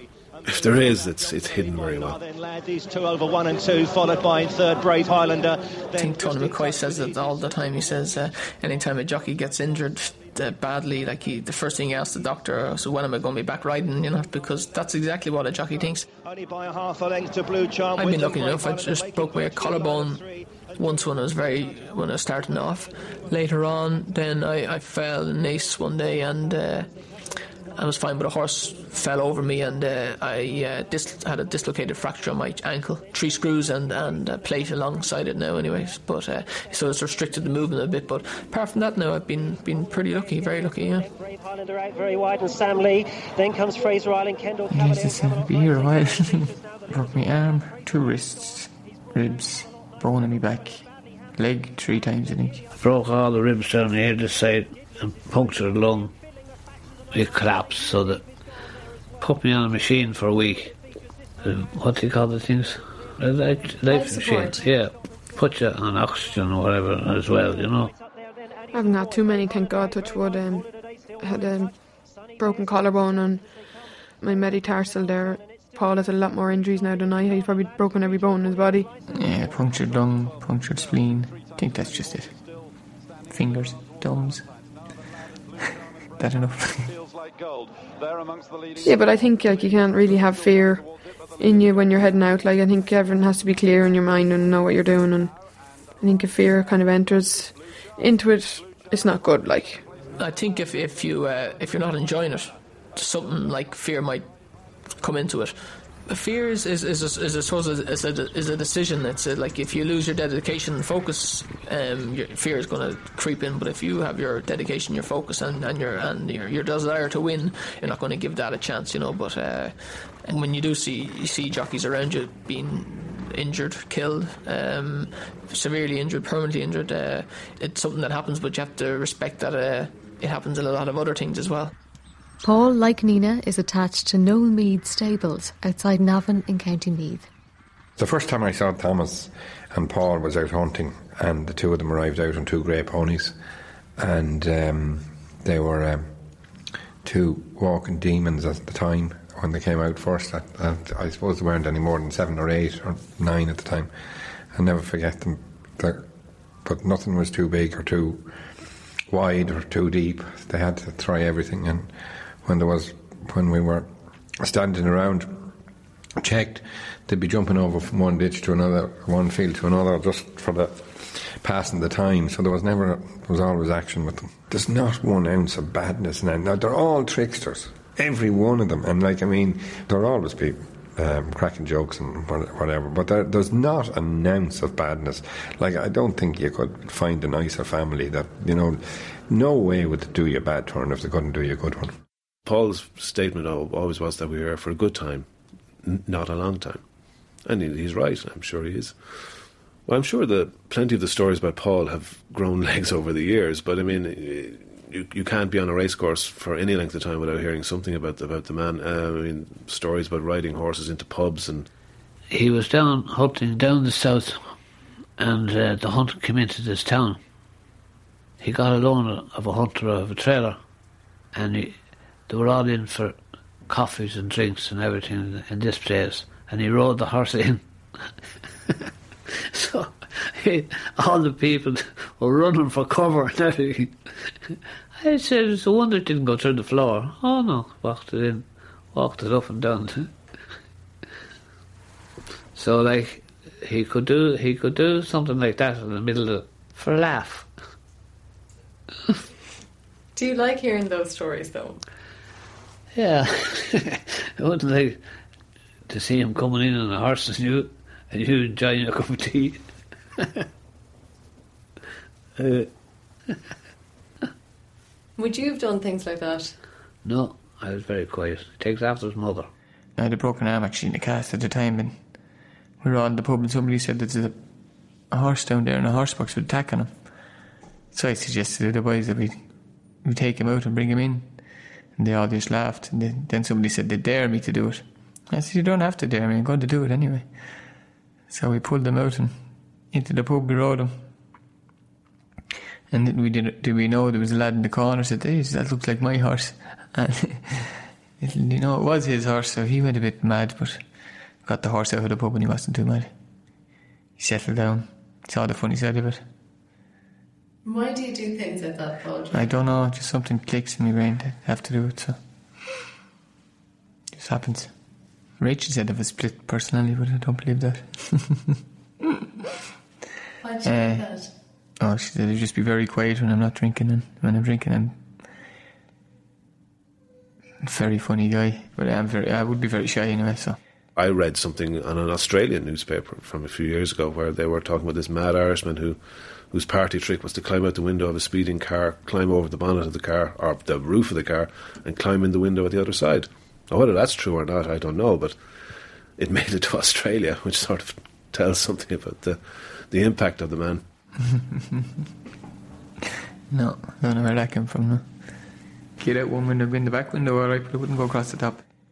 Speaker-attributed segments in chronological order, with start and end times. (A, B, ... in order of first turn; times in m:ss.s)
0:00.4-0:07.4 A
0:00.5-0:02.2 B
0:06.0-0:16.0 C
0:16.2-0:20.8 A
0:18.0-0:20.2 C
0:20.8-0:41.1 C
0:41.2-0:46.6 D
0:44.7-0:52.6 E
0:52.8-0:56.1 F
0:57.1-0:58.2 F
0:59.2-1:00.8 F
1:01.4-1:07.9 F
1:03.9-1:04.7 G
1:08.7-1:11.8 H
1:12.4-1:13.5 H
1:14.2-1:18.9 H
1:19.1-1:22.7 E
1:23.3-1:24.5 E
1:26.2-1:26.9 E
1:28.8-1:39.8 H
1:40.2-1:44.3 C
1:44.9-2:11.7 C
2:12.4-2:17.3 I
2:18.0-2:23.3 J
2:24.0-2:26.1 J
2:27.0-2:33.9 J
2:34.5-2:36.1 J
2:36.6-2:38.4 J
2:39.1-2:43.9 J
2:44.4-2:45.5 J
2:46.2-3:11.9 J
3:12.4-3:15.3 B
3:15.8-3:16.8 B
3:17.4-3:31.7 B
3:32.3-3:34.6 F
3:35.2-3:37.2 F
3:38.4-3:40.6 F
3:41.3-3:47.7 F
3:49.5-3:54.3 F
3:55.0-4:00.2 F
4:02.5-4:07.5 F
4:10.2-4:11.8 G
4:12.9-4:15.0 F
4:15.9-4:19.6 F
4:22.4-4:22.7 F
4:25.2-4:26.6 G
4:27.0-4:29.5 F
4:30.0-4:32.2 E
4:32.8-4:37.2 E
4:37.9-4:47.7 E
4:48.3-4:51.0 E
4:52.9-5:00.9 E
5:01.4-5:03.1 E
5:04.2-5:06.2 E
5:07.6-5:09.5 G
5:09.3-5:12.2 E
5:14.1-5:18.4 E
5:20.4-5:21.3 G
5:20.6-5:25.0 E
5:27.6-5:30.6 E
5:30.9-5:50.8 B
5:53.5-5:58.6 E